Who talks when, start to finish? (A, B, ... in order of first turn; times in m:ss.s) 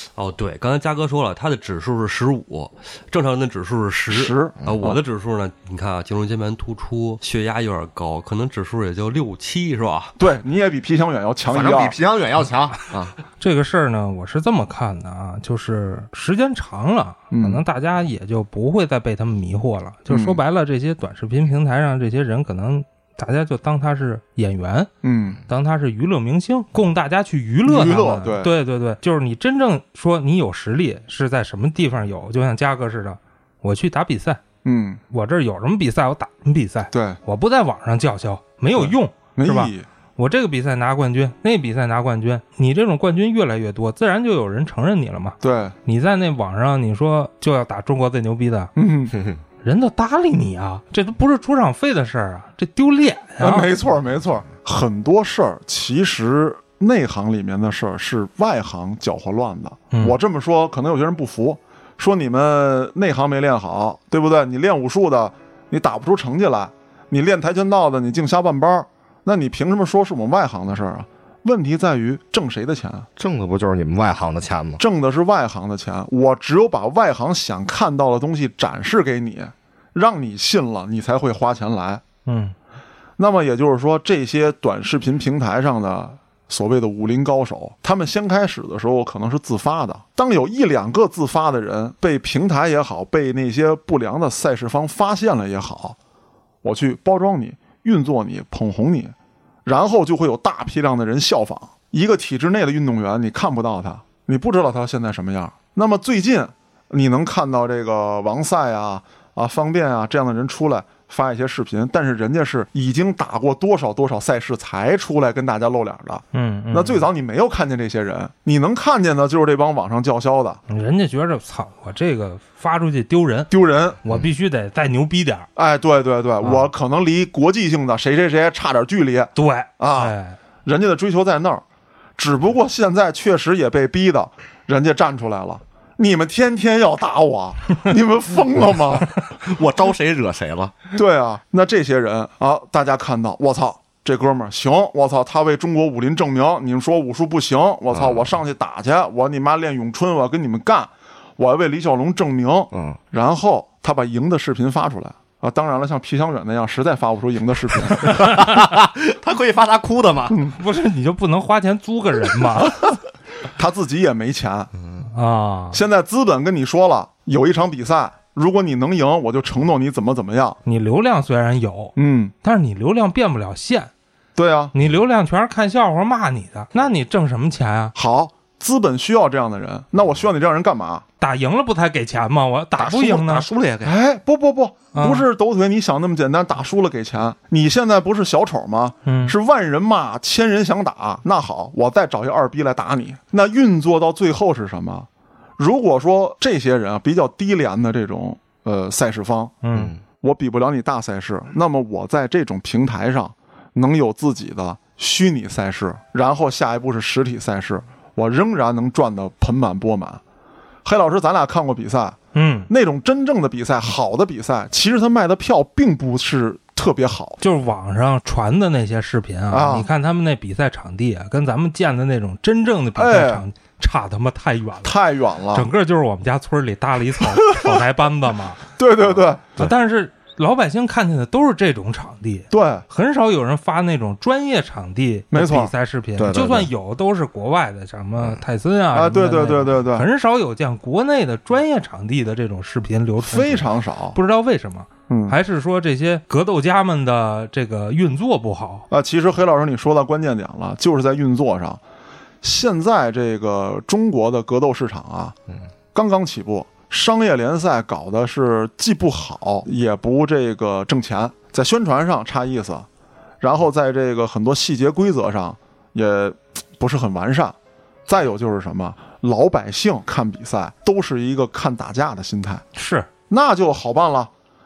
0:00.2-0:10.2 A
0:04.1-0:05.0 B
0:10.2-0:11.9 B
0:11.4-0:13.1 C
0:13.4-0:24.9 D
0:17.3-0:17.6 B
0:20.1-0:20.4 B
0:25.0-0:25.4 B
0:25.5-0:34.4 D
0:27.6-0:28.5 B
0:34.6-0:35.0 B
0:35.1-0:48.7 D
0:36.9-0:37.2 B
0:38.8-0:39.8 B
0:45.4-0:45.7 B
0:48.8-0:49.1 B
0:49.1-0:49.4 C
0:49.6-0:53.7 D
0:53.4-1:13.1 B
1:13.2-1:14.8 C
1:14.8-1:22.0 B
1:22.2-1:22.5 D
1:23.2-1:36.0 B
1:36.6-1:39.1 B
1:39.6-2:00.6 B
1:56.3-1:57.1 D
2:00.7-2:03.5 D
2:03.5-2:04.0 B
2:04.0-2:05.5 D
2:05.6-2:11.6 B
2:09.4-2:10.4 D
2:12.2-2:19.1 B
2:19.4-2:20.8 C
2:20.9-2:38.2 B
2:27.9-2:28.2 C
2:32.7-2:33.0 C
2:38.0-2:40.4 C
2:40.3-2:40.6 B
2:40.6-2:42.9 D
2:43.6-2:44.7 B
2:45.0-2:45.8 D
2:45.7-2:50.6 B
2:50.6-2:53.9 D
2:52.0-2:52.3 B
2:54.4-2:54.7 B
2:54.7-2:57.9 D
2:57.9-3:01.0 B
3:01.2-3:03.4 D
3:02.8-3:03.9 C
3:03.8-3:19.6 B
3:04.9-3:05.2 D
3:09.0-3:09.3 D
3:19.6-3:19.9 D
3:19.7-3:20.0 C
3:20.2-3:30.2 B
3:30.8-3:32.2 B
3:32.3-3:32.7 D
3:32.7-3:37.4 B
3:37.4-3:45.0 D
3:39.5-3:39.9 B
3:43.0-3:43.4 B
3:44.8-3:45.7 B
3:45.5-3:48.6 D
3:47.4-3:47.8 B
3:48.8-3:49.6 B
3:49.6-4:08.9 D
3:52.5-3:52.8 B
3:55.3-3:55.7 B
3:56.2-3:56.7 C
3:58.9-4:00.1 B
4:03.2-4:04.2 B
4:05.1-4:05.4 B
4:08.9-4:11.8 B
4:12.4-4:15.4 B
4:15.9-4:22.8 B
4:23.4-4:27.5 B
4:28.1-4:32.6 B
4:32.7-4:33.1 D
4:33.3-4:34.3 B